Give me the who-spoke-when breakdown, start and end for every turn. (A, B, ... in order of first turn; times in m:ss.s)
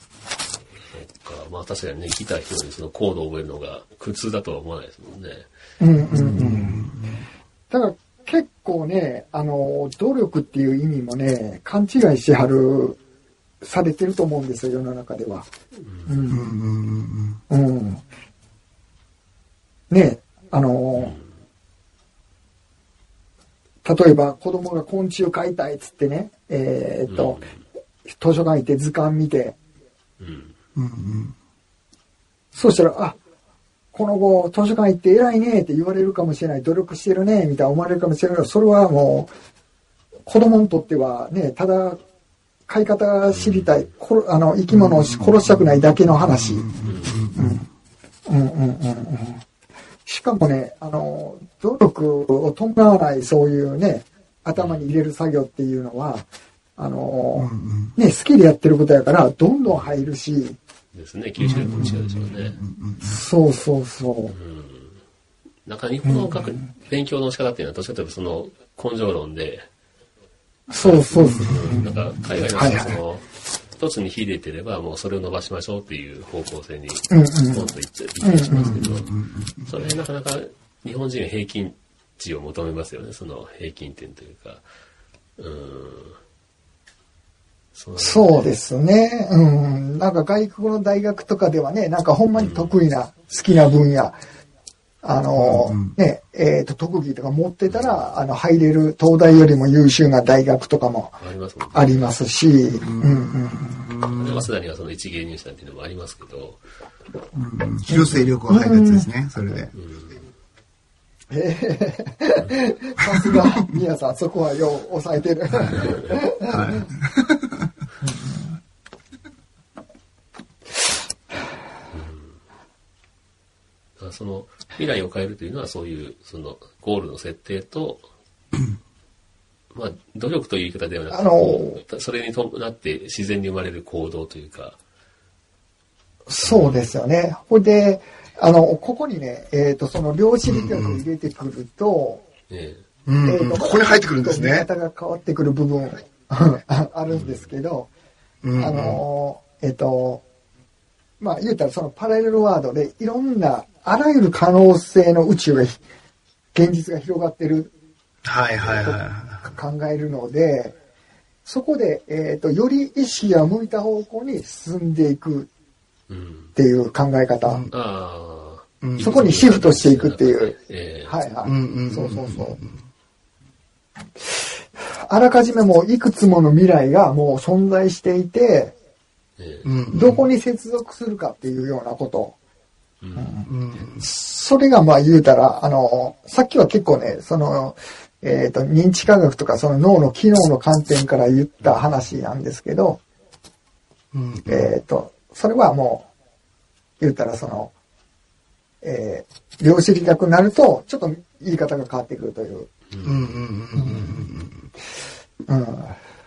0:00.8-0:05.5 A
0:05.8-0:06.8 B
0:06.0-0:07.3 C
0:07.7-0:13.0 B
0:13.6-0:15.5 B
0:15.8-0:16.2 A
0:16.1-0:16.6 B
0:16.3-0:17.4 C
0:17.5-0:18.0 B
0:19.9-0:21.2 B
0:21.0-0:21.3 A
0:23.8-0:27.5 B
0:27.1-0:27.6 A
0:28.1-0:29.6 B
0:30.2-0:30.6 A
0:30.8-0:31.3 C
0:32.5-0:33.2 B
0:33.9-0:39.3 B
0:40.3-0:42.0 B
0:42.7-0:46.6 B
0:43.3-0:43.9 A
0:44.7-0:47.6 C
0:46.8-0:47.2 A
0:47.4-0:47.7 B
0:48.3-0:49.4 B
0:50.1-1:00.6 B
0:54.5-0:54.9 A
0:57.4-0:58.0 C
0:59.6-1:00.0 A
1:00.9-1:02.6 A
1:01.4-1:03.2 C
1:01.5-1:01.9 B
1:03.0-1:04.3 B
1:04.3-1:05.0 A
1:05.7-1:09.7 A
1:06.0-1:06.7 B
1:10.7-1:11.9 B
1:10.8-1:19.1 A
1:11.2-1:11.9 C
1:12.5-1:13.0 B
1:17.1-1:17.7 B
1:18.2-1:18.9 B
1:18.6-1:19.7 C
1:19.7-1:24.6 A
1:25.4-1:26.2 A
1:27.7-1:28.5 A
1:28.0-1:34.2 B
1:32.4-1:32.8 A
1:35.0-1:41.2 B
1:35.4-1:35.9 C
1:37.7-1:38.1 A
1:41.2-1:42.1 A
1:41.7-1:43.9 B
1:42.8-1:44.4 C
1:44.1-1:46.6 A
1:47.4-1:49.7 C
1:47.9-1:49.1 B
1:49.7-1:50.3 A
1:51.3-1:56.9 B
1:55.5-1:55.8 C
1:56.5-1:57.5 C
1:58.0-1:58.5 B
2:01.9-2:02.4 A
2:04.0-2:08.0 A
2:09.7-2:14.8 A
2:11.1-2:11.8 B
2:16.3-2:22.2 B
2:16.4-2:16.9 A
2:20.4-2:21.0 C
2:22.5-2:22.8 A
2:23.1-2:24.7 C
2:23.2-2:27.9 B
2:27.1-2:27.5 A
2:28.4-2:29.0 C
2:28.6-2:30.2 B
2:31.2-2:35.8 B
2:36.5-2:37.7 B
2:38.2-2:39.5 C
2:38.6-2:38.9 A
2:38.8-2:40.8 B
2:41.4-2:45.5 B
2:46.1-2:46.6 A
2:46.6-2:47.7 B
2:47.4-2:47.7 C
2:47.7-2:51.2 A
2:48.8-2:49.3 C
2:49.0-2:50.6 B
2:51.1-2:52.6 B
2:51.4-2:52.8 C
2:54.2-2:58.8 B
2:59.4-2:59.7 A
2:59.6-3:00.3 C
2:59.9-3:02.4 B
3:03.0-3:03.4 A
3:03.2-3:13.0 B
3:03.5-3:04.0 C
3:11.6-3:12.1 A
3:14.1-3:14.7 C
3:14.5-3:16.1 B
3:17.0-3:17.7 B
3:18.8-3:22.7 B
3:22.9-3:23.3 A
3:23.0-3:24.7 C
3:23.8-3:24.3 B
3:25.5-3:26.0 B